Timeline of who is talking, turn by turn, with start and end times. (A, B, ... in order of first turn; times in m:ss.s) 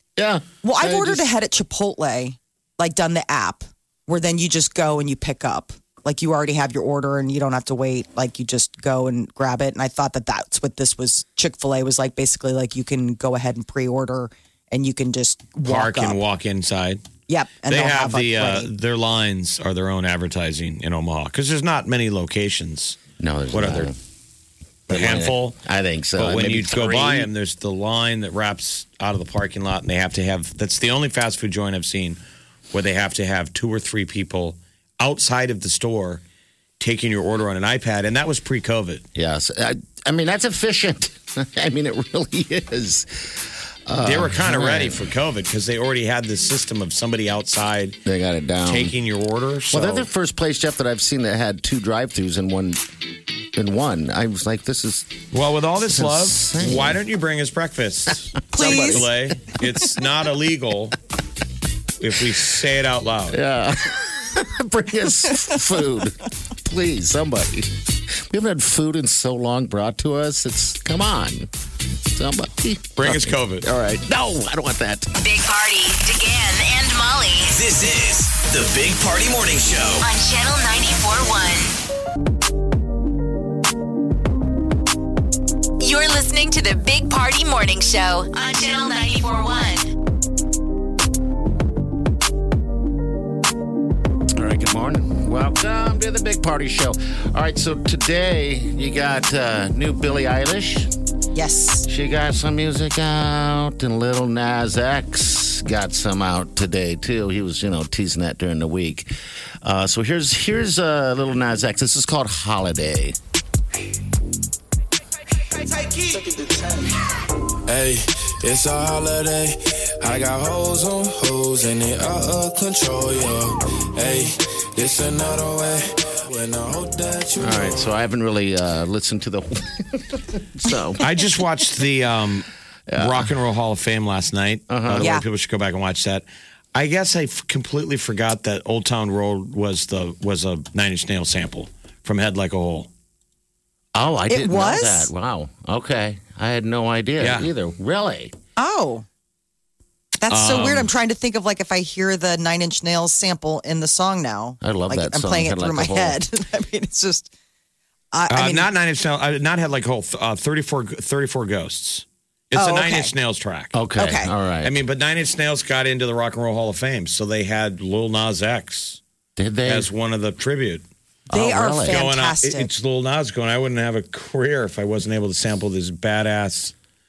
0:00.2-0:01.3 A
0:00.6-0:16.2 B
0:15.6-0:17.0 C
0:17.3-0:18.7 B
0:17.7-0:23.0 C
0:23.2-0:24.0 A
0:23.5-0:23.9 C
0:24.9-0:27.3 A
0:24.9-0:25.6 C
0:26.2-0:32.2 C
0:32.7-0:36.2 C
0:36.8-0:39.0 C
0:39.2-0:45.1 A
0:44.0-0:48.0 C
0:48.1-0:48.9 A
0:48.6-0:50.1 C
0:49.7-0:52.8 A
0:53.6-0:55.2 A
0:55.3-1:01.0 C
0:55.9-0:57.0 A
0:58.5-0:59.0 B
0:58.6-0:59.3 A
1:02.0-1:03.4 C
1:03.3-1:11.5 A
1:12.1-1:15.2 A
1:13.0-1:13.6 C
1:15.2-1:17.6 D
1:17.5-1:20.0 E
1:20.0-1:21.8 D
1:25.8-1:29.9 D
1:34.4-1:40.9 A
1:41.4-1:41.9 B
1:41.9-1:49.1 A
1:49.6-1:53.2 A
1:58.7-1:59.5 F
2:00.1-2:01.9 F
2:05.1-2:05.6 F
2:06.5-2:07.3 F
2:07.4-2:11.0 A
2:11.0-2:22.9 C
2:12.9-2:13.3 A
2:14.7-2:15.2 A
2:15.0-2:15.2 B
2:23.9-2:28.4 A
2:24.3-2:25.1 B
2:27.2-2:27.5 C
2:28.6-2:29.0 B
2:30.2-2:37.3 B
2:30.3-2:30.9 C
2:34.6-2:36.2 A
2:38.1-2:38.7 B
2:38.3-2:43.8 C
2:42.6-2:43.1 B
2:43.7-2:44.8 A
2:44.0-2:44.3 B
2:44.6-2:49.0 C
2:49.4-2:49.9 A
2:49.6-2:50.8 C
2:51.3-2:52.0 A
2:51.3-2:52.7 B
2:51.8-2:56.7 C